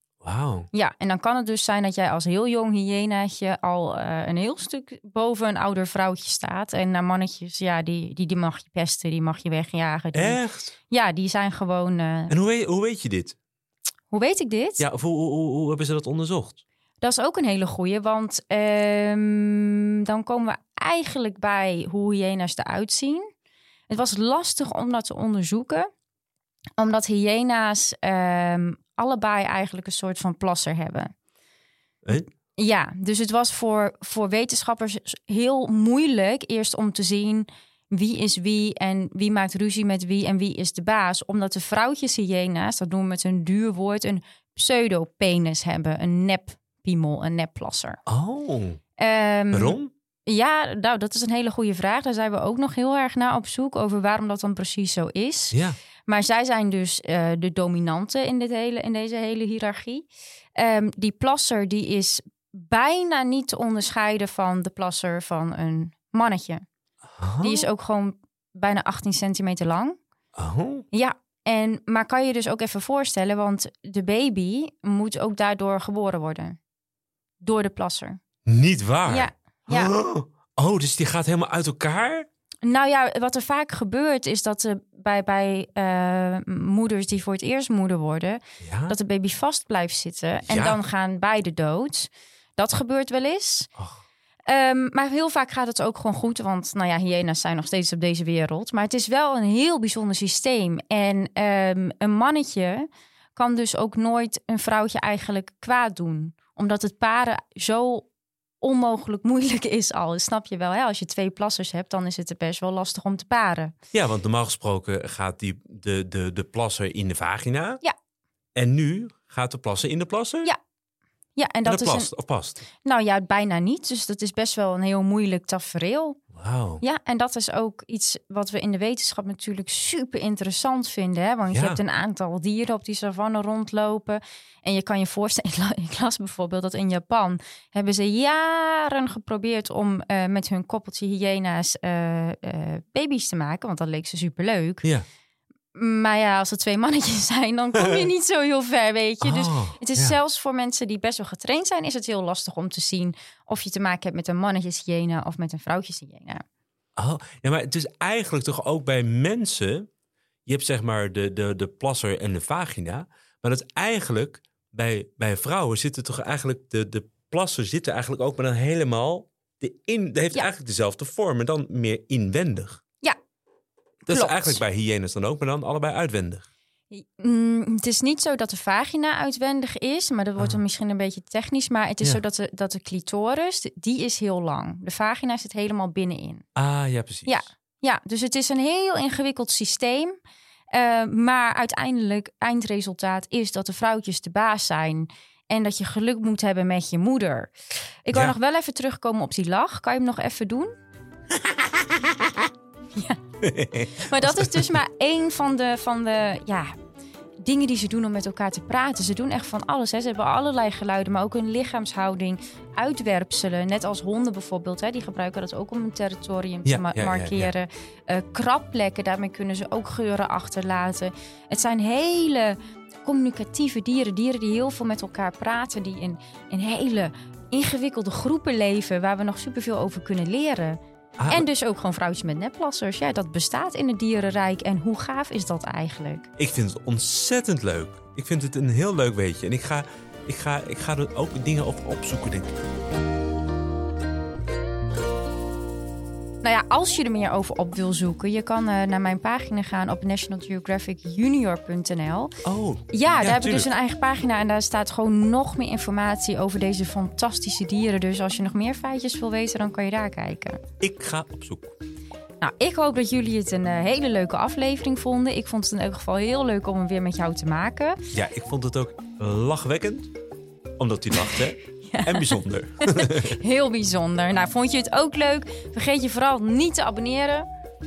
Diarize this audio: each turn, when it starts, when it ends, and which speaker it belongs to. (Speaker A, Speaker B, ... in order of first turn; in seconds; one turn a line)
Speaker A: 0.2-0.7
Speaker B: 0.7-12.3
Speaker A: 10.1-10.8
Speaker A: 12.3-13.4
Speaker B: 14.1-14.8
Speaker A: 14.8-16.6
Speaker B: 17.0-23.3
Speaker B: 23.9-25.9
Speaker B: 26.8-31.1
Speaker B: 32.6-48.0
Speaker A: 48.1-48.8
Speaker B: 49.0-66.6
Speaker A: 49.5-49.9
Speaker A: 55.5-55.8
Speaker A: 67.2-67.7
Speaker B: 67.4-70.0
Speaker A: 70.4-70.8
Speaker B: 70.9-76.6
Speaker B: 77.4-78.2
Speaker A: 78.5-82.3
Speaker B: 79.1-79.9
Speaker B: 82.7-93.7
Speaker A: 88.6-89.0
Speaker A: 90.5-90.8
Speaker B: 94.5-108.1
Speaker B: 108.6-113.7
Speaker A: 113.9-117.8
Speaker A: 118.5-120.5
Speaker B: 121.4-122.1
Speaker A: 121.7-122.7
Speaker B: 122.8-126.2
Speaker A: 126.3-126.8
Speaker B: 126.8-144.9
Speaker A: 131.5-131.8
Speaker B: 145.8-156.4
Speaker A: 149.2-150.2
Speaker A: 157.0-159.9
Speaker A: 160.5-172.8
Speaker B: 174.1-174.6
Speaker A: 174.1-176.5
Speaker B: 176.9-186.5
Speaker A: 186.6-187.4
Speaker B: 187.3-190.2
Speaker B: 190.7-197.5
Speaker B: 198.1-200.7
Speaker A: 203.4-204.8
Speaker B: 204.0-206.7
Speaker B: 207.4-230.8
Speaker A: 216.7-217.5
Speaker A: 231.2-231.4
Speaker B: 231.3-236.3
Speaker A: 236.4-242.6
Speaker B: 246.4-252.3
Speaker A: 252.4-253.7
Speaker B: 252.9-260.6
Speaker A: 260.8-261.8
Speaker B: 262.4-268.0
Speaker A: 268.1-270.1
Speaker A: 270.8-273.4
Speaker B: 271.1-277.4